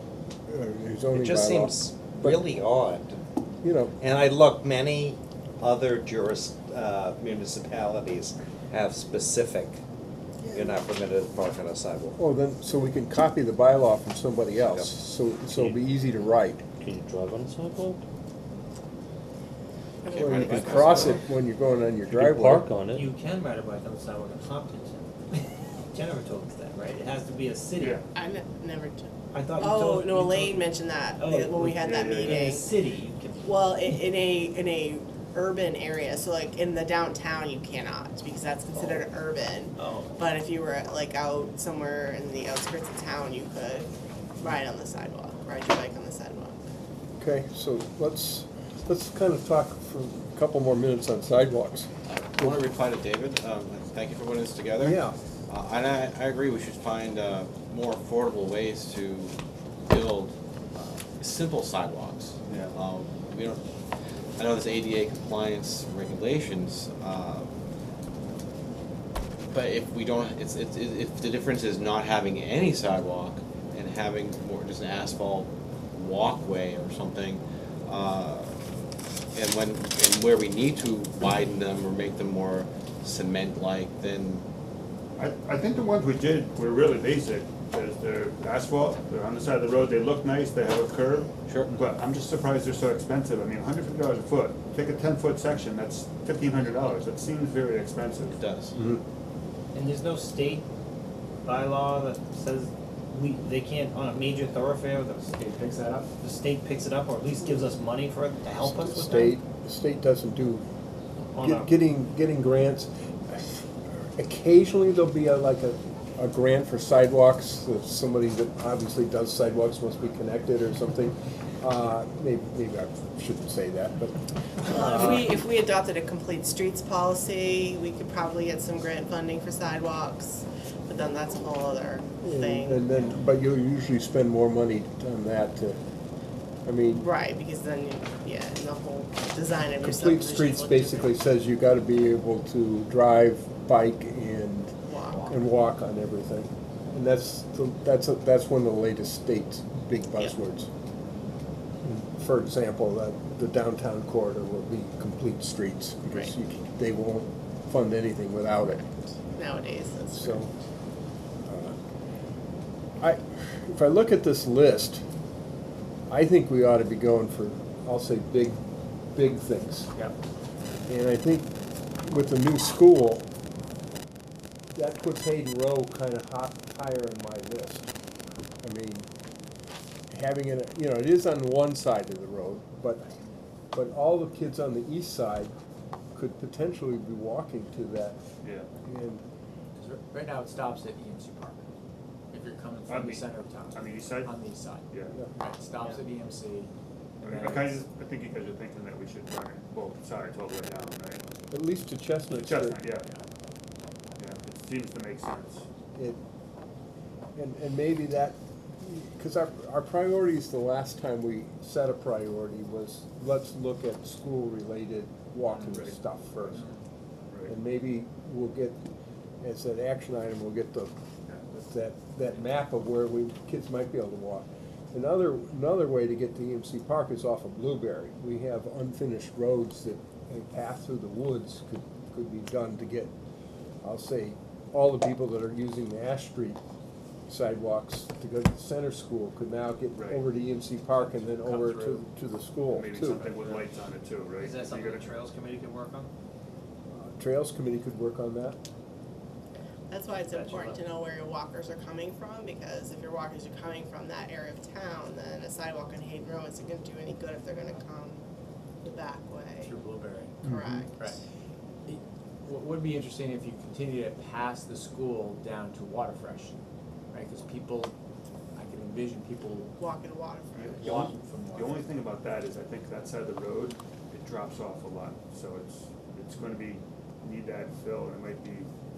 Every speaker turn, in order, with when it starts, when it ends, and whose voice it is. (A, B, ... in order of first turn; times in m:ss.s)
0:00.5-0:02.4 A
0:01.1-0:03.2 B
0:03.6-0:03.9 A
0:04.0-0:09.8 B
0:10.5-0:12.1 B
0:12.2-0:16.6 A
0:14.5-0:14.9 B
0:15.5-0:15.8 B
0:16.8-0:18.0 C
0:20.0-0:21.2 D
0:20.1-0:22.7 A
0:20.2-0:21.2 E
0:22.1-0:23.1 C
0:22.9-0:28.0 F
0:27.8-0:28.0 G
0:28.1-0:32.7 D
0:29.3-0:30.6 F
0:31.2-0:33.5 F
0:31.8-0:32.4 G
0:33.4-0:46.6 D
0:38.7-0:39.0 F
0:39.8-0:40.1 F
0:47.2-0:51.9 A
0:52.1-1:03.6 E
0:54.8-0:55.1 A
1:04.4-1:07.5 E
1:09.5-1:18.6 E
1:19.3-1:24.4 E
1:25.2-1:38.4 G
1:38.3-1:38.7 E
1:38.7-1:39.0 A
1:39.7-1:40.6 F
1:41.4-1:48.4 F
1:43.5-1:43.8 B
1:44.9-1:45.6 B
1:48.6-1:50.6 A
1:49.0-1:49.3 F
1:51.3-1:51.7 F
1:51.4-2:05.3 A
2:04.7-2:12.8 D
2:12.2-2:15.8 A
2:16.6-2:17.0 A
2:16.9-2:21.1 D
2:19.8-2:24.7 A
2:24.8-2:25.4 D
2:25.3-2:30.7 A
2:31.8-2:38.8 A
2:38.7-2:40.4 D
2:40.1-2:40.5 A
2:41.4-2:41.7 A
2:43.0-2:45.0 A
2:46.1-2:48.6 A
2:49.1-2:49.9 A
2:50.9-2:51.5 A
2:52.0-2:53.3 A
2:54.7-2:57.9 A
2:58.6-2:59.1 A
3:00.1-3:03.0 A
3:03.7-3:05.5 A
3:06.1-3:08.2 A
3:08.4-3:08.7 G
3:08.8-3:09.2 A
3:09.8-3:11.6 H
3:12.3-3:16.7 H
3:12.9-3:14.3 G
3:14.9-3:15.2 G
3:17.2-3:17.8 H
3:17.2-3:21.2 G
3:21.5-3:22.8 A
3:22.3-3:23.1 G
3:24.2-3:25.6 G
3:27.4-3:36.6 A
3:35.5-3:35.8 H
3:35.6-3:35.9 G
3:36.5-3:36.8 H
3:37.5-3:38.8 A
3:39.4-3:40.9 A
3:41.3-3:41.6 G
3:41.6-3:53.1 A
3:53.8-3:56.6 A
3:57.3-4:03.2 A
4:00.0-4:00.2 G
4:00.9-4:02.0 H
4:02.7-4:05.2 G
4:03.3-4:03.6 H
4:04.4-4:06.1 F
4:06.9-4:08.6 A
4:09.9-4:18.2 D
4:10.3-4:10.8 F
4:18.8-4:19.7 D
4:19.6-4:21.2 H
4:20.4-4:21.1 D
4:20.5-4:20.8 A
4:21.8-4:26.6 H
4:27.1-4:27.9 H
4:28.6-4:29.7 H
4:29.8-4:31.1 D
4:30.5-4:38.7 G